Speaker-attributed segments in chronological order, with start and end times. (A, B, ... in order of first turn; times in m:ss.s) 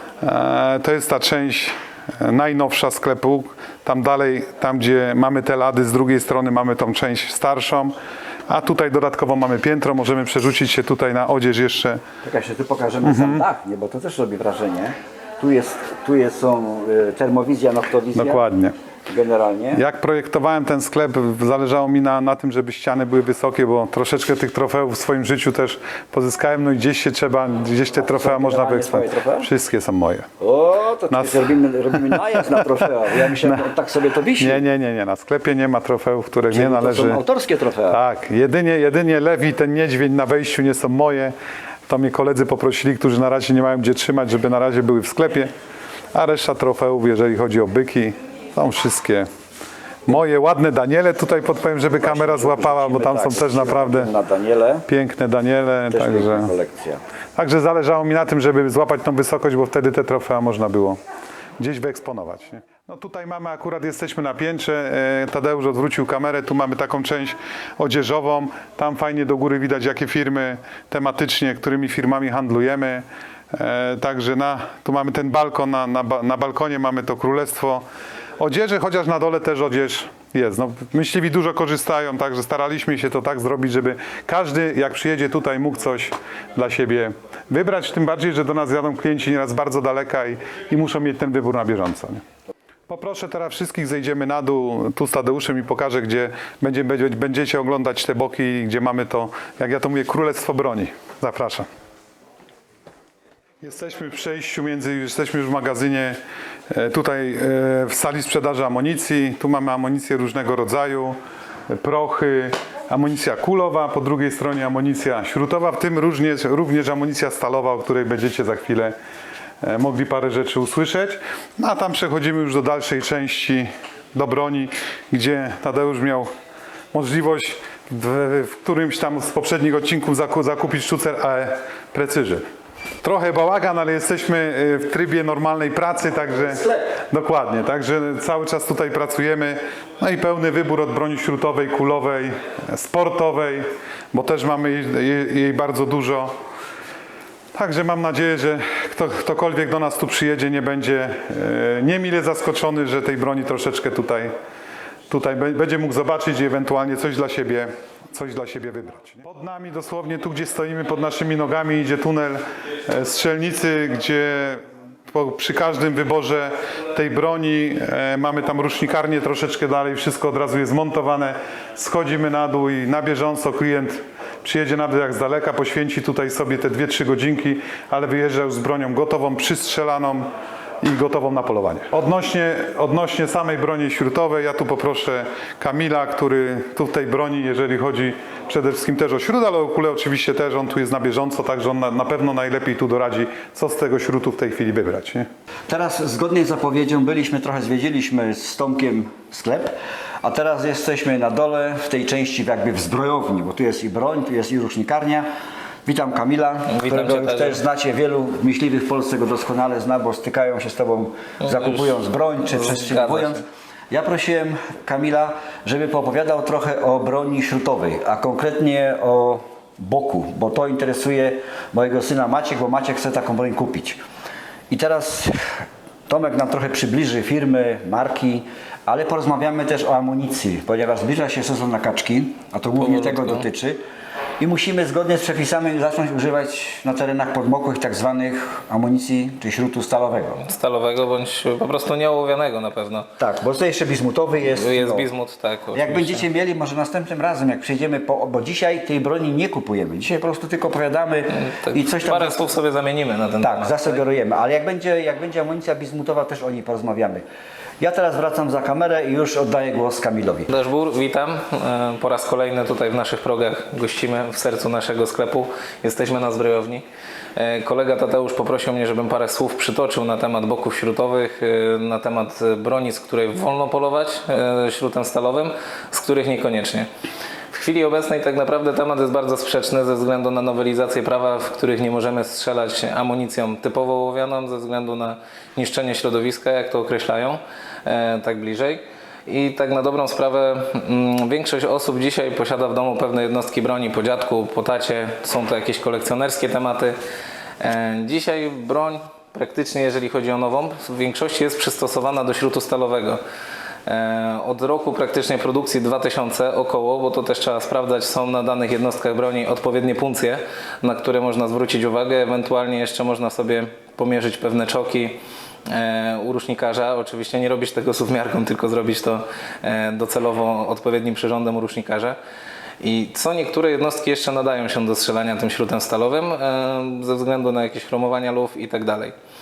0:00.2-0:07.9 A
0:08.5-0:12.0 A
0:12.2-0:18.4 B
0:13.0-0:13.4 A
0:18.1-0:18.7 A
0:19.1-0:19.8 B
0:19.7-0:30.3 A
0:28.0-0:29.5 B
0:30.4-0:34.6 B
0:32.3-0:32.8 A
0:34.4-0:37.2 A
0:36.5-0:38.0 B
0:37.9-0:41.3 A
0:41.9-0:45.5 A
0:46.1-0:49.3 A
0:50.1-0:54.1 A
0:51.9-0:54.9 B
0:54.9-0:56.5 A
0:55.9-0:57.0 B
0:57.4-1:01.0 A
1:01.6-1:17.8 A
1:18.4-1:32.2 A
1:32.9-1:41.6 A
1:43.6-1:46.2 A
1:46.7-1:51.2 A
1:51.7-1:58.9 A
1:59.6-2:06.3 A
2:06.9-2:12.4 A
2:13.0-2:26.3 A
2:27.5-2:34.3 A
2:35.1-3:00.3 A
3:00.8-3:15.2 A
3:15.7-3:25.3 B
3:25.8-3:44.0 B
3:26.7-3:27.6 C
3:32.5-3:33.4 C
3:44.7-3:53.8 B
3:52.8-3:53.4 C
3:54.4-4:00.4 B
4:00.4-4:03.1 C
4:03.2-4:05.1 B
4:04.4-4:06.3 C
4:05.7-4:12.4 B
4:11.3-4:14.0 C
4:13.4-4:17.2 B
4:17.8-4:20.5 B
4:20.5-4:26.8 C
4:27.4-4:36.9 C
4:37.5-4:57.0 C
4:57.6-5:03.2 C
5:03.8-5:22.2 C
5:22.8-5:29.1 C